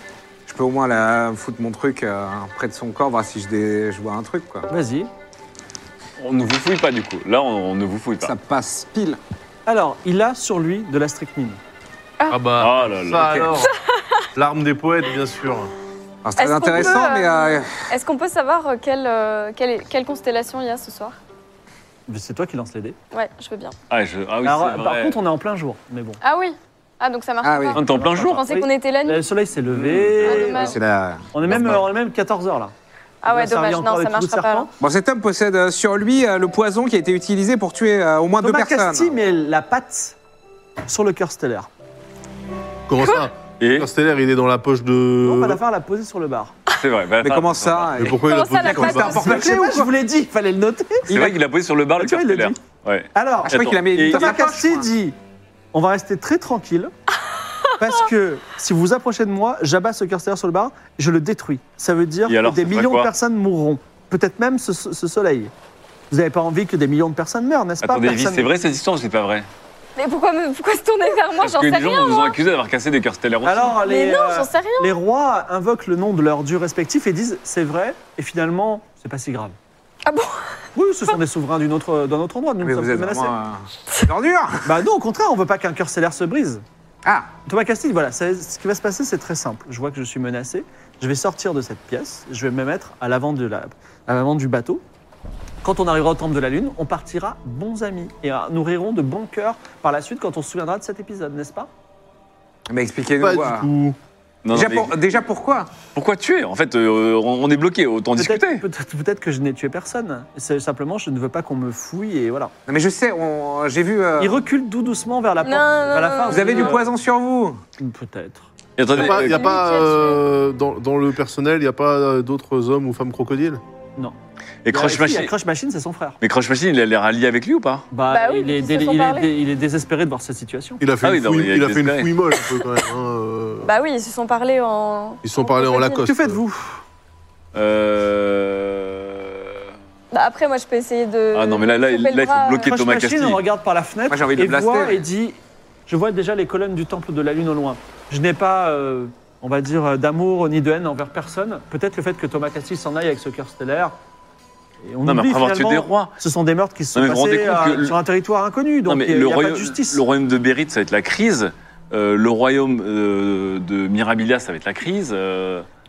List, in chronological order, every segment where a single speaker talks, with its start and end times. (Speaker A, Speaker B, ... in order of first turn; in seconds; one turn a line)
Speaker A: 0.5-4.7
Speaker B: 4.7-5.1
Speaker C: 6.2-8.3
Speaker A: 8.2-9.2
Speaker B: 9.7-11.6
Speaker D: 12.3-13.8
Speaker C: 12.6-13.5
Speaker A: 13.2-13.5
Speaker D: 14.3-15.7
Speaker A: 16.2-17.9
Speaker E: 16.4-21.2
Speaker B: 22.1-23.0
Speaker E: 23.1-23.7
Speaker C: 23.9-25.2
Speaker B: 24.4-26.2
Speaker E: 26.2-29.2
Speaker A: 27.4-27.8
Speaker C: 27.7-28.5
Speaker B: 27.9-30.8
Speaker C: 29.7-30.5
Speaker E: 30.2-30.8
Speaker A: 30.5-31.8
Speaker B: 31.3-32.7
Speaker E: 33.2-34.7
Speaker B: 33.2-34.7
Speaker A: 34.8-39.1
Speaker B: 38.4-40.2
Speaker B: 40.9-41.7
Speaker D: 42.9-45.6
Speaker C: 43.6-43.9
Speaker B: 45.2-46.5
Speaker C: 46.8-48.0
Speaker A: 47.2-49.9
Speaker D: 48.0-49.3
Speaker E: 48.2-49.4
Speaker B: 49.1-51.2
Speaker C: 51.1-54.4
Speaker A: 51.1-51.4
Speaker B: 52.0-52.6
Speaker B: 53.1-55.1
Speaker A: 53.4-54.9
Speaker B: 55.7-56.9
Speaker B: 57.8-65.5
Speaker C: 62.3-63.1
Speaker B: 66.1-68.5
Speaker C: 67.8-69.5
Speaker E: 70.0-72.3
Speaker C: 71.4-73.8
Speaker B: 73.4-79.5
Speaker E: 73.8-74.9
Speaker E: 80.0-80.5
Speaker B: 80.7-83.3
Speaker A: 82.6-84.8
Speaker B: 84.6-86.6
Speaker A: 87.0-87.3
Speaker B: 87.5-94.8
Speaker B: 95.6-101.7
Speaker A: 102.7-103.7
Speaker D: 103.2-104.0
Speaker C: 104.4-105.0
Speaker A: 104.5-105.7
Speaker C: 105.9-108.6
Speaker B: 108.2-112.5
Speaker A: 112.7-114.4
Speaker B: 114.2-116.9
Speaker E: 115.4-116.7
Speaker A: 116.2-117.6
Speaker B: 117.8-118.5
Speaker C: 118.8-119.5
Speaker D: 118.9-123.6
Speaker E: 119.0-120.2
Speaker C: 124.6-125.3
Speaker B: 124.7-126.2
Speaker C: 126.2-127.9
Speaker B: 127.9-130.8
Speaker E: 128.1-129.3
Speaker D: 130.8-133.7
Speaker C: 131.0-132.1
Speaker E: 133.6-136.0
Speaker D: 135.2-136.4
Speaker B: 136.0-136.8
Speaker C: 137.5-139.6
Speaker E: 140.1-142.7
Speaker C: 141.3-143.4
Speaker B: 142.7-153.9
Speaker A: 144.1-145.0
Speaker B: 154.8-160.0
Speaker C: 155.1-156.1
Speaker C: 156.9-158.0
Speaker C: 158.9-165.7